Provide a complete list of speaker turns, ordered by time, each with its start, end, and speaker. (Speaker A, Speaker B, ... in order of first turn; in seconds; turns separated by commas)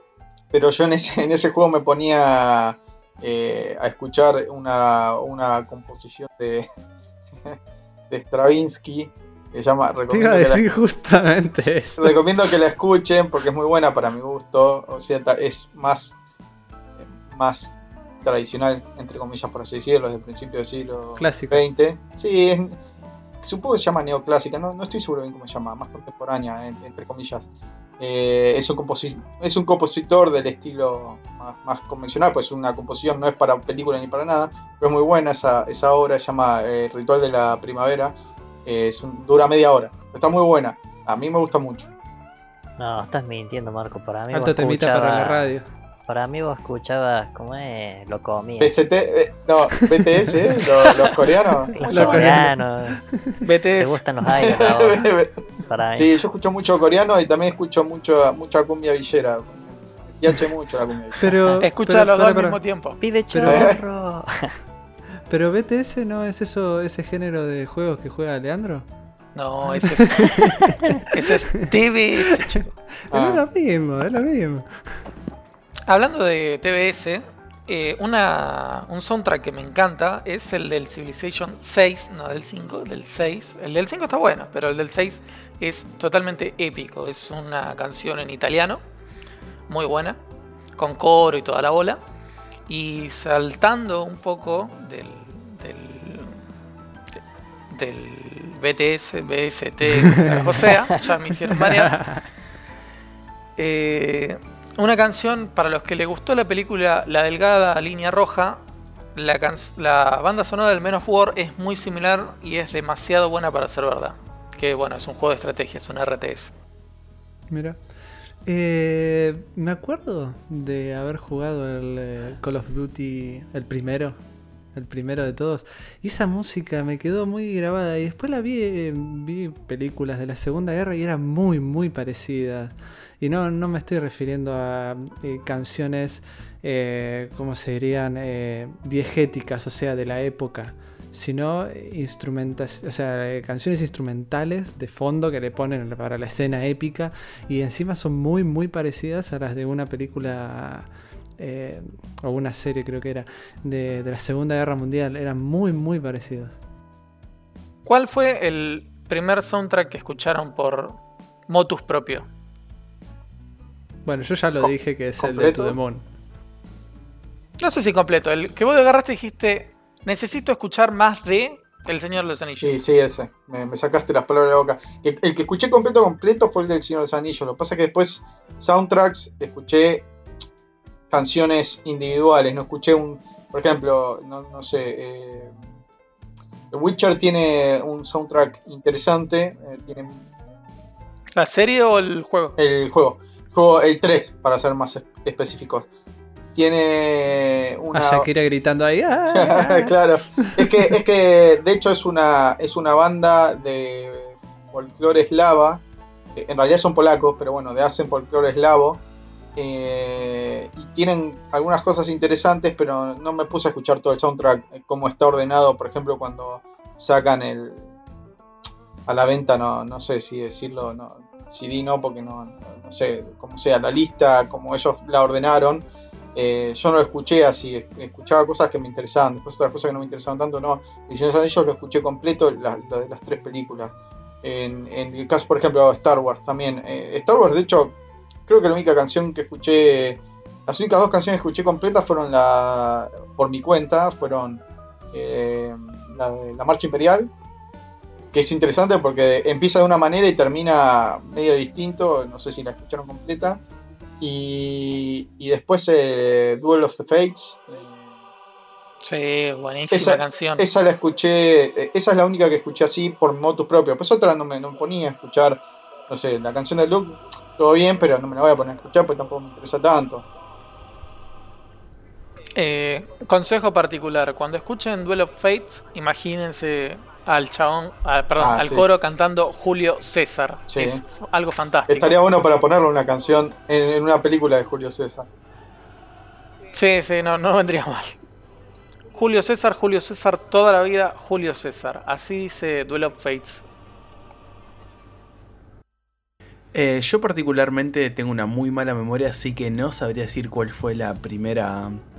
Speaker A: 0.5-6.7, Speaker A: 8.1-10.6, Speaker B: 10.1-12.6, Speaker A: 11.6-16.1, Speaker A: 17.2-22.8, Speaker B: 21.2-21.6, Speaker A: 23.4-38.1, Speaker A: 38.7-41.9, Speaker C: 42.8-45.5, Speaker B: 44.3-45.7, Speaker C: 46.1-48.8, Speaker A: 48.6-52.4, Speaker C: 51.7-53.0, Speaker B: 51.8-53.4, Speaker D: 53.4-54.0, Speaker C: 53.8-55.1, Speaker A: 54.2-55.4, Speaker C: 55.6-56.1, Speaker A: 56.0-61.3, Speaker B: 61.2-62.6, Speaker D: 61.6-63.0, Speaker C: 63.0-64.5, Speaker B: 63.3-63.8, Speaker A: 63.5-63.8, Speaker B: 65.3-68.9, Speaker D: 69.3-72.7, Speaker B: 69.8-71.7, Speaker B: 72.5-74.7, Speaker A: 73.1-73.4, Speaker D: 75.9-88.8, Speaker D: 89.7-90.2, Speaker D: 90.8-92.0, Speaker D: 92.7-96.4, Speaker D: 97.7-102.1, Speaker B: 100.0-100.7, Speaker B: 101.5-102.3, Speaker D: 103.6-108.6, Speaker D: 109.2-116.5, Speaker B: 117.5-117.8, Speaker B: 118.5-124.2, Speaker B: 124.7-156.6, Speaker D: 157.8-161.0, Speaker D: 161.5-162.3, Speaker B: 164.1-166.1, Speaker A: 164.6-165.8, Speaker D: 167.6-172.8, Speaker A: 172.6-180.1, Speaker A: 181.1-185.5, Speaker A: 186.7-190.3, Speaker D: 191.3-192.6, Speaker A: 192.6-195.9, Speaker A: 196.6-198.3, Speaker B: 197.9-200.7, Speaker A: 199.3-205.8, Speaker A: 206.3-209.0, Speaker A: 209.6-217.9, Speaker A: 219.1-247.3, Speaker A: 248.3-253.6, Speaker A: 254.2-258.0, Speaker D: 259.0-260.7, Speaker A: 259.9-270.3, Speaker D: 272.6-282.1, Speaker A: 278.4-278.9, Speaker A: 280.7-281.0, Speaker A: 281.9-285.3, Speaker D: 286.7-288.2, Speaker D: 289.1-293.6, Speaker E: 296.7-302.0